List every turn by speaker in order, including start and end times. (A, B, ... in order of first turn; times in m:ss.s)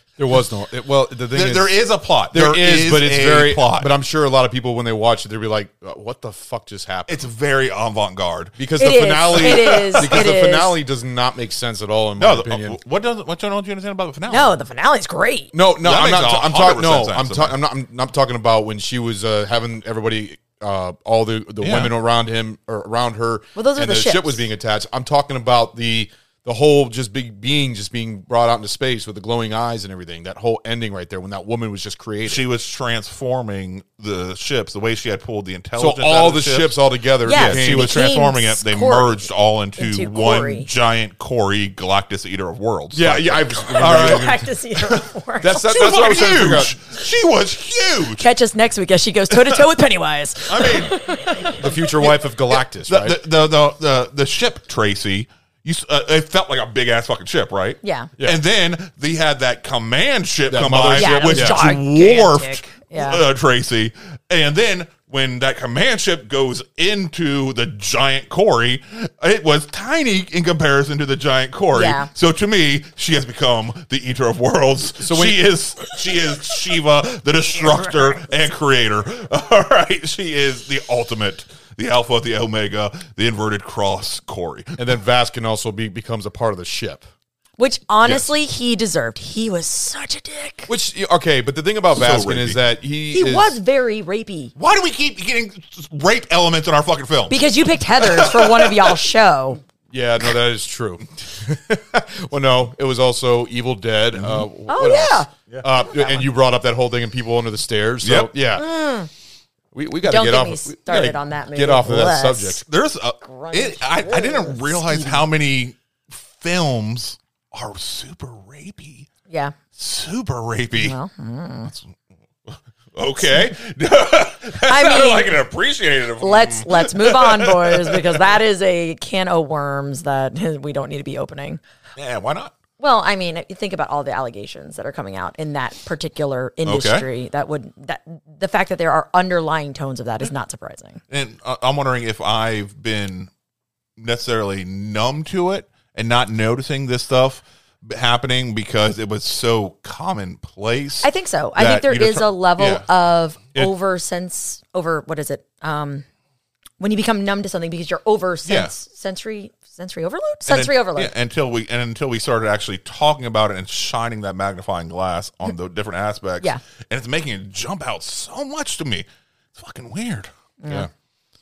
0:00.2-0:01.8 A
0:01.3-0:03.9 B
0:02.3-0:07.2 A
0:07.1-0:08.6 B
0:08.6-0:12.8 A
0:08.8-0:10.8 C
0:09.3-0:10.3 B
0:12.2-0:14.5 B
0:14.3-0:15.5 C
0:15.5-0:32.4 A
0:15.8-0:17.6 B
0:21.6-0:21.9 B
0:23.6-0:24.5 C
0:32.2-0:44.3 B
0:35.8-0:38.0 A
0:37.3-0:40.7 C
0:42.9-0:44.5 A
0:43.8-0:45.9 C
0:45.4-0:46.8 A
0:45.6-0:48.3 B
0:48.2-0:52.1 C
0:49.3-0:49.6 B
0:50.5-0:51.0 B
0:51.6-0:53.2 A
0:52.9-1:24.8 B
0:57.8-0:58.1 C
1:00.5-1:01.7 A
1:00.9-1:03.3 C
1:11.7-1:12.1 C
1:15.0-1:15.4 A
1:17.6-1:18.3 C
1:24.8-1:27.0 A
1:27.6-1:30.7 C
1:30.7-1:33.6 A
1:31.9-1:32.6 B
1:33.1-1:34.5 C
1:34.6-1:39.0 B
1:37.3-1:39.6 C
1:39.9-1:48.7 A
1:44.1-1:44.5 B
1:44.7-1:45.3 C
1:45.5-1:46.2 B
1:48.0-1:48.3 B
1:48.6-1:49.1 C
1:49.7-1:52.6 A
1:50.0-1:52.6 C
1:52.7-1:59.1 B
1:53.2-1:55.2 C
1:59.3-1:59.6 C
1:59.8-2:01.0 B
2:00.7-2:01.7 C
2:01.7-2:01.9 B
2:02.5-2:08.4 B
2:04.6-2:05.4 C
2:06.2-2:11.6 C
2:12.0-2:12.6 B
2:12.8-2:21.0 C
2:16.6-2:17.0 B
2:21.1-2:23.3 B
2:24.0-2:32.8 B
2:31.0-2:36.0 C
2:36.8-2:41.1 C
2:38.4-2:38.7 B
2:40.5-2:50.3 B
2:50.6-2:50.9 C